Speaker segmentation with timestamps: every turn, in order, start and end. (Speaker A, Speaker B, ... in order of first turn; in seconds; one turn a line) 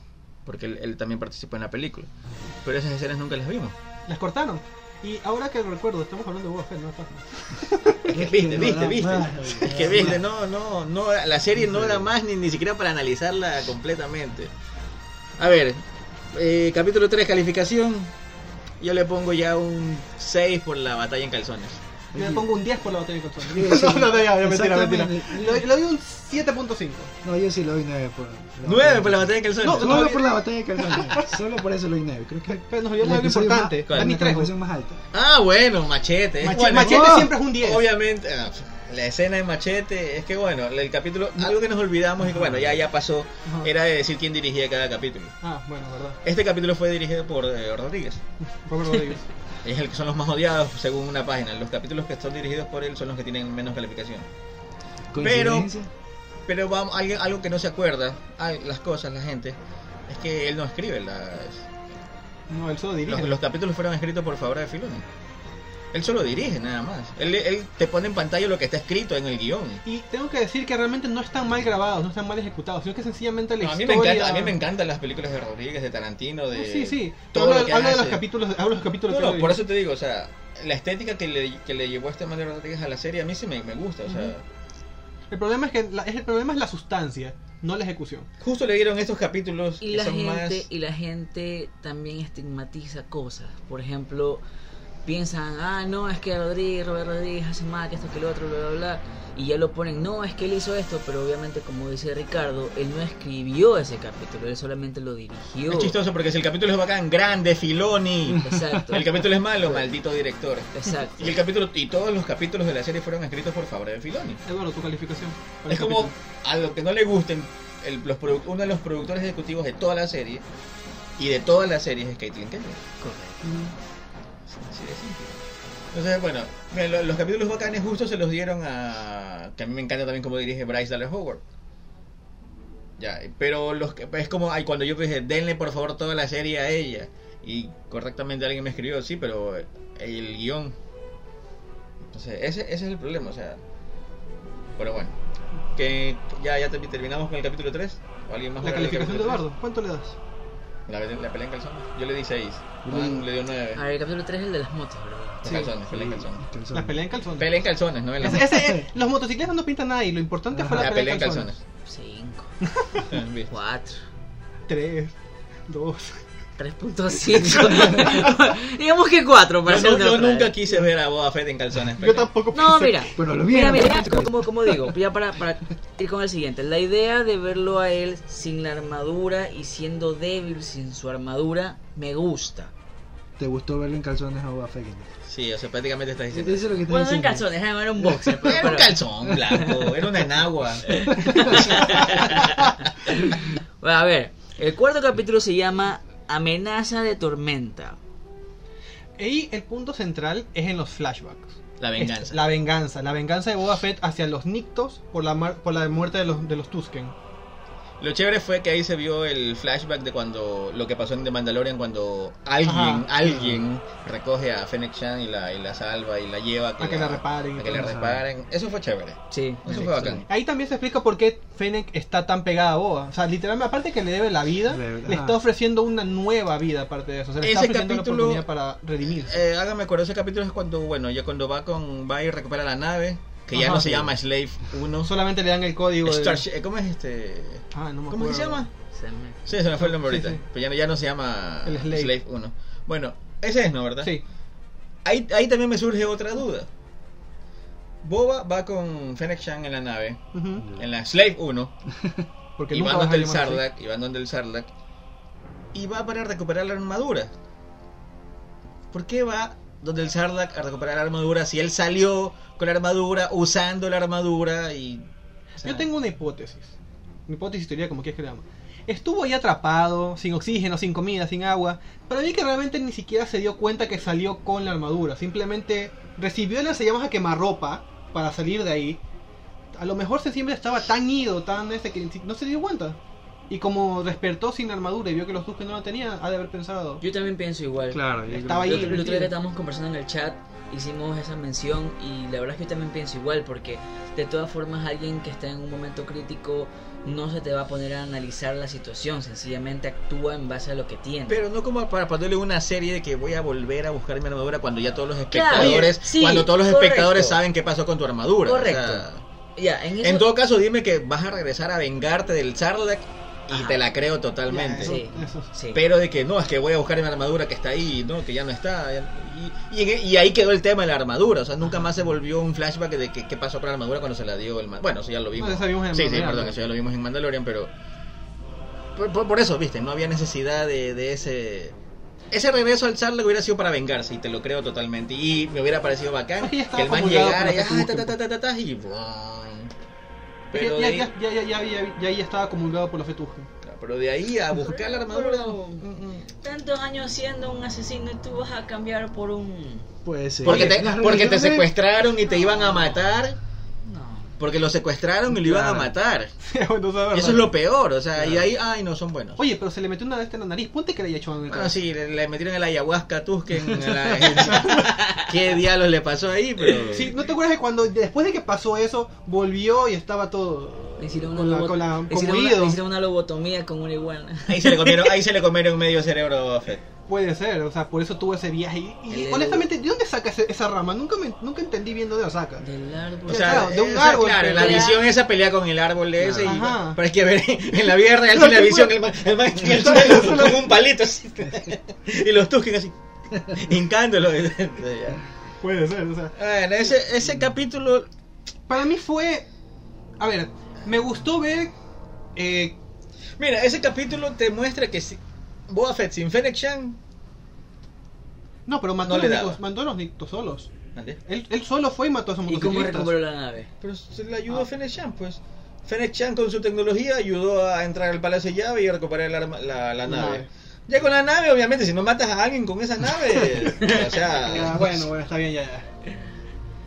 Speaker A: 0.5-2.1
Speaker A: 2.6-3.8
Speaker B: 4.1-8.0
Speaker C: 8.0-10.2
Speaker A: 8.1-14.5
Speaker C: 11.6-12.1
Speaker A: 15.4-15.8
Speaker A: 16.3-18.1
Speaker A: 18.8-21.8
Speaker C: 22.1-22.5
Speaker B: 22.1-27.1
Speaker C: 23.5-25.7
Speaker C: 27.2-35.0
Speaker A: 28.6-30.2
Speaker B: 29.6-30.3
Speaker B: 30.8-31.2
Speaker B: 32.5-34.5
Speaker A: 33.9-34.1
Speaker A: 35.1-45.4
Speaker B: 36.4-37.9
Speaker C: 36.6-37.3
Speaker C: 42.3-42.8
Speaker B: 45.4-46.2
Speaker A: 46.2-48.2
Speaker B: 48.6-49.3
Speaker A: 49.6-54.2
Speaker C: 55.1-55.9
Speaker A: 55.2-55.7
Speaker A: 56.5-59.5
Speaker A: 60.1-61.7
Speaker B: 62.5-63.3
Speaker A: 63.1-65.0
Speaker A: 65.9-69.8
Speaker B: 69.8-74.5
Speaker A: 73.6-78.2
Speaker B: 76.5-79.6
Speaker A: 79.1-84.4
Speaker B: 84.1-84.3
Speaker B: 85.3-88.3
Speaker A: 88.4-90.7
Speaker D: 89.8-94.4
Speaker D: 95.0-106.0
Speaker A: 105.7-114.4
Speaker C: 108.3-108.6
Speaker D: 108.4-109.2
Speaker D: 110.7-111.4
Speaker B: 114.5-116.1
Speaker A: 115.7-120.4
Speaker A: 121.2-122.8
Speaker D: 123.0-123.5
Speaker A: 124.5-125.4
Speaker A: 125.9-131.4
Speaker A: 133.0-140.7
Speaker A: 142.1-143.6
Speaker A: 144.8-145.1
Speaker A: 145.8-149.4
Speaker B: 148.6-150.2
Speaker A: 150.9-153.8
Speaker C: 152.8-153.3
Speaker D: 153.8-155.7
Speaker A: 155.4-156.5
Speaker C: 155.9-157.1
Speaker B: 156.7-157.5
Speaker A: 157.4-158.7
Speaker B: 158.2-161.5
Speaker C: 158.4-158.8
Speaker C: 160.5-160.9
Speaker A: 160.8-161.6
Speaker D: 161.9-162.5
Speaker B: 162.8-163.1
Speaker A: 163.1-163.5
Speaker D: 163.5-164.0
Speaker B: 164.7-165.2
Speaker B: 165.7-166.2
Speaker D: 166.6-170.5
Speaker A: 169.7-172.3
Speaker B: 172.0-173.1
Speaker D: 172.5-182.7
Speaker C: 173.2-174.9
Speaker C: 183.4-185.1
Speaker A: 185.3-186.7
Speaker C: 186.3-187.4
Speaker D: 186.9-188.9
Speaker C: 188.0-188.5
Speaker A: 188.4-192.4
Speaker D: 189.5-189.7
Speaker D: 190.9-198.0
Speaker C: 191.2-191.7
Speaker B: 199.2-207.1
Speaker A: 201.8-202.4
Speaker A: 208.0-220.2
Speaker B: 212.6-213.1
Speaker C: 213.2-213.6
Speaker B: 216.8-218.0
Speaker C: 217.7-218.2
Speaker D: 219.3-220.2
Speaker B: 220.3-229.4
Speaker C: 224.7-225.4
Speaker A: 227.4-228.4
Speaker A: 229.1-235.2
Speaker B: 233.5-234.1
Speaker B: 235.1-236.4
Speaker A: 236.0-238.7
Speaker B: 237.7-238.7
Speaker D: 238.9-239.5
Speaker A: 239.5-244.2
Speaker B: 239.8-240.4
Speaker B: 241.7-242.1
Speaker A: 245.1-246.7
Speaker A: 248.0-250.2
Speaker B: 250.3-250.7
Speaker A: 250.8-251.7
Speaker B: 252.6-253.6
Speaker A: 252.7-254.7
Speaker A: 255.7-257.3
Speaker A: 258.9-265.0
Speaker B: 265.6-266.7
Speaker B: 267.3-279.0
Speaker B: 279.7-283.0
Speaker B: 283.5-287.0
Speaker D: 287.0-288.0
Speaker C: 287.9-289.1
Speaker B: 288.3-289.3
Speaker D: 288.6-301.4
Speaker A: 301.3-309.2
Speaker D: 305.3-307.4
Speaker B: 305.5-305.9
Speaker D: 308.4-309.1
Speaker D: 309.6-310.2
Speaker A: 310.0-315.0
Speaker D: 313.5-313.8
Speaker B: 314.5-315.5
Speaker D: 314.8-315.8
Speaker A: 315.7-327.7
Speaker B: 325.4-326.6
Speaker A: 329.0-331.8
Speaker A: 332.3-339.7
Speaker B: 336.4-338.1
Speaker A: 340.5-341.1
Speaker B: 340.5-343.5
Speaker A: 343.6-346.3
Speaker D: 344.6-349.9
Speaker C: 350.1-351.7
Speaker A: 350.4-353.4
Speaker B: 350.5-350.7
Speaker D: 352.3-353.0
Speaker D: 353.8-354.3
Speaker A: 354.4-356.3
Speaker C: 355.3-355.9
Speaker B: 356.5-357.6
Speaker A: 357.1-359.4
Speaker B: 359.4-361.8
Speaker A: 361.5-367.1
Speaker B: 364.2-364.9
Speaker D: 364.8-365.3
Speaker B: 366.9-372.8
Speaker D: 371.0-375.2
Speaker A: 374.5-376.8
Speaker B: 377.1-382.6
Speaker D: 379.1-379.7
Speaker D: 382.6-383.7
Speaker B: 383.3-384.9
Speaker A: 383.3-395.2
Speaker D: 384.5-385.0
Speaker C: 386.2-386.6
Speaker B: 386.4-387.0
Speaker B: 388.4-388.9
Speaker B: 389.6-390.6
Speaker B: 395.6-396.3
Speaker A: 396.4-398.1
Speaker B: 398.7-399.5
Speaker B: 400.2-401.7
Speaker B: 402.4-402.8
Speaker A: 403.4-407.0
Speaker B: 408.7-410.7
Speaker A: 409.0-409.6
Speaker A: 410.9-411.2
Speaker B: 411.3-413.1
Speaker D: 412.5-413.7
Speaker A: 413.8-424.9
Speaker B: 420.1-420.5
Speaker B: 424.4-425.9